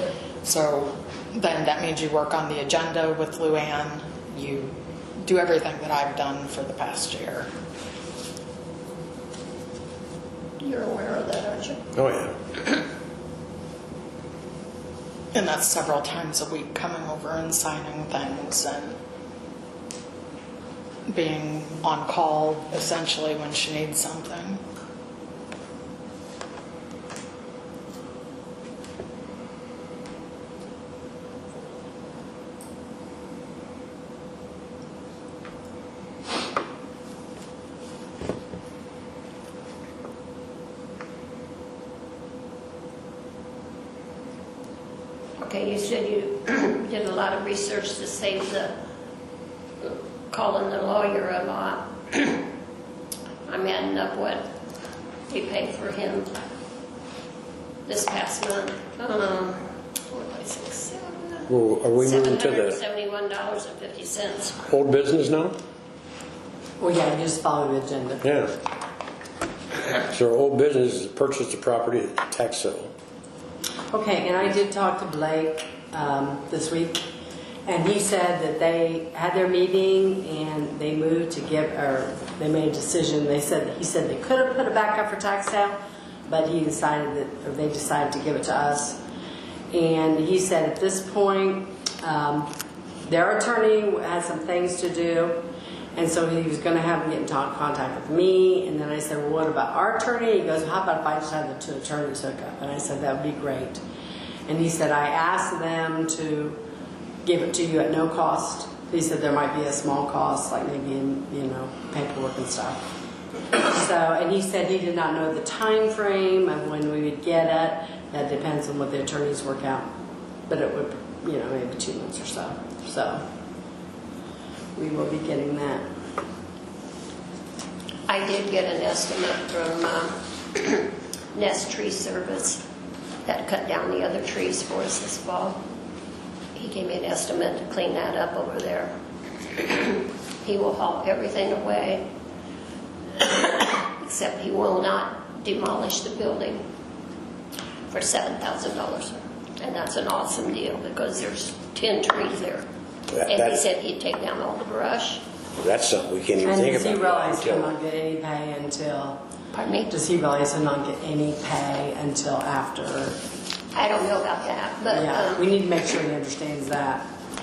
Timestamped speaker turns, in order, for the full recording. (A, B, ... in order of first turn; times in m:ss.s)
0:00.4-0:07.5 A
0:10.6-0:11.8 B
0:12.0-0:12.4 C
0:15.3-0:19.0 A
0:21.1-0:24.6 A
0:45.4-0:48.8 B
0:49.8-0:52.4 B
0:53.5-0:54.5 B
0:55.3-0:56.3 B
0:57.8-1:04.6 B
1:01.5-1:02.8 C
1:04.6-1:05.6 C
1:06.8-1:08.2 D
1:08.2-1:08.5 C
1:10.0-1:12.9 C
1:13.9-1:17.1 D
1:17.7-1:25.8 D
1:26.3-1:29.0 D
1:29.7-1:32.5 D
1:33.1-1:35.4 D
1:36.0-1:43.8 D
1:44.5-1:46.6 D
1:47.2-1:52.8 D
1:53.5-1:59.9 D
2:00.5-2:03.2 D
2:04.8-2:05.9 D
2:08.1-2:12.6 B
2:13.3-2:15.6 B
2:16.5-2:18.9 B
2:19.6-2:22.1 B
2:23.2-2:26.6 B
2:27.9-2:32.7 B
2:33.1-2:33.6 C
2:33.2-2:35.2 B
2:35.6-2:37.7 C
2:36.4-2:39.2 D
2:39.5-2:39.9 B
2:39.9-2:43.2 D
2:43.7-2:45.4 B
2:44.9-2:47.1 D